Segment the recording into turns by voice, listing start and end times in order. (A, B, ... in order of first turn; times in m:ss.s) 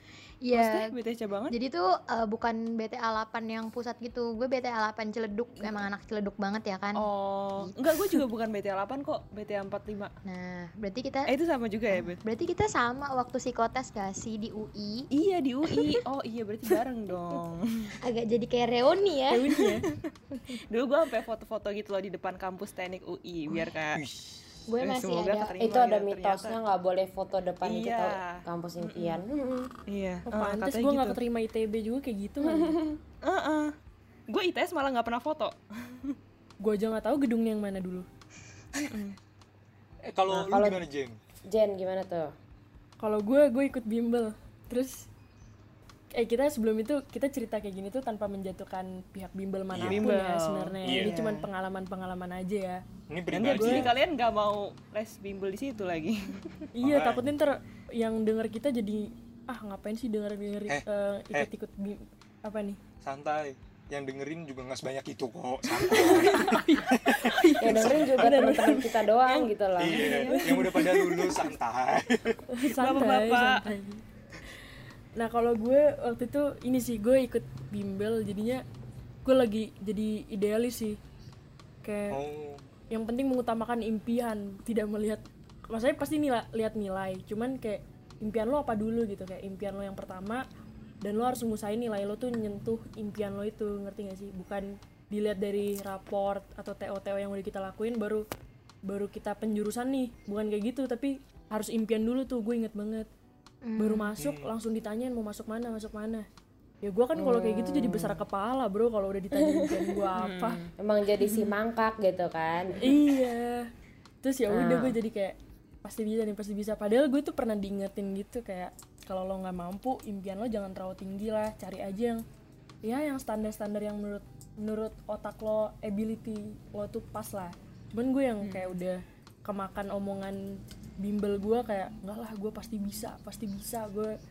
0:00.4-0:00.9 A
0:00.5-0:01.6 B
0:01.5-0:07.1 A
0:05.6-0:05.8 B
0:07.0-0:10.1 B
0:07.6-0:08.2 A
0:10.2-0:11.3 A
0:11.3-0:12.2 B
0:11.9-0:15.1 A
0:15.1-0:18.0 B
0:15.7-0:15.9 A
0:18.0-0:19.6 A
0:19.3-0:19.8 C
0:20.3-0:20.6 A
0:20.7-0:24.0 B
0:23.9-0:24.6 D
0:24.7-0:25.5 A
0:24.8-0:26.6 B
0:25.6-0:29.7 E
0:27.6-0:29.2 B
0:29.9-0:31.2 B
0:30.3-0:32.8 C
0:32.4-0:33.0 E
0:33.2-0:33.7 B
0:34.3-0:36.2 B
0:36.6-0:38.1 C
0:38.8-0:39.2 B
0:40.0-0:41.2 D
0:40.3-0:40.8 E
0:41.5-0:42.3 E
0:43.0-0:45.1 C
0:46.1-0:52.8 C
0:49.7-0:50.0 D
0:49.8-0:51.5 B
0:50.8-0:51.1 D
0:53.1-0:54.0 D
0:53.3-0:56.6 B
0:53.4-0:53.9 C
0:56.7-1:02.8 C
0:56.8-0:57.3 D
1:00.7-1:01.5 D
1:03.0-1:07.4 D
1:05.9-1:08.9 C
1:07.6-1:10.2 E
1:09.2-1:11.4 B
1:09.8-1:12.4 D
1:10.0-1:10.7 C
1:12.5-1:14.0 C
1:12.7-1:13.7 B
1:15.2-1:18.6 C
1:19.2-1:21.0 C
1:21.8-1:22.2 C
1:22.1-1:22.6 D
1:22.9-1:30.4 C
1:31.0-1:38.2 C
1:38.9-1:43.1 C
1:43.6-1:44.2 A
1:43.8-1:46.2 C
1:44.2-1:44.5 D
1:46.8-1:50.6 C
1:47.2-1:48.2 E
1:49.3-1:50.0 E
1:50.2-1:50.7 B
1:50.8-1:52.9 E
1:52.8-1:53.6 C
1:54.2-2:02.2 C
1:54.5-1:55.0 E
2:02.8-2:14.2 C
2:08.4-2:08.7 B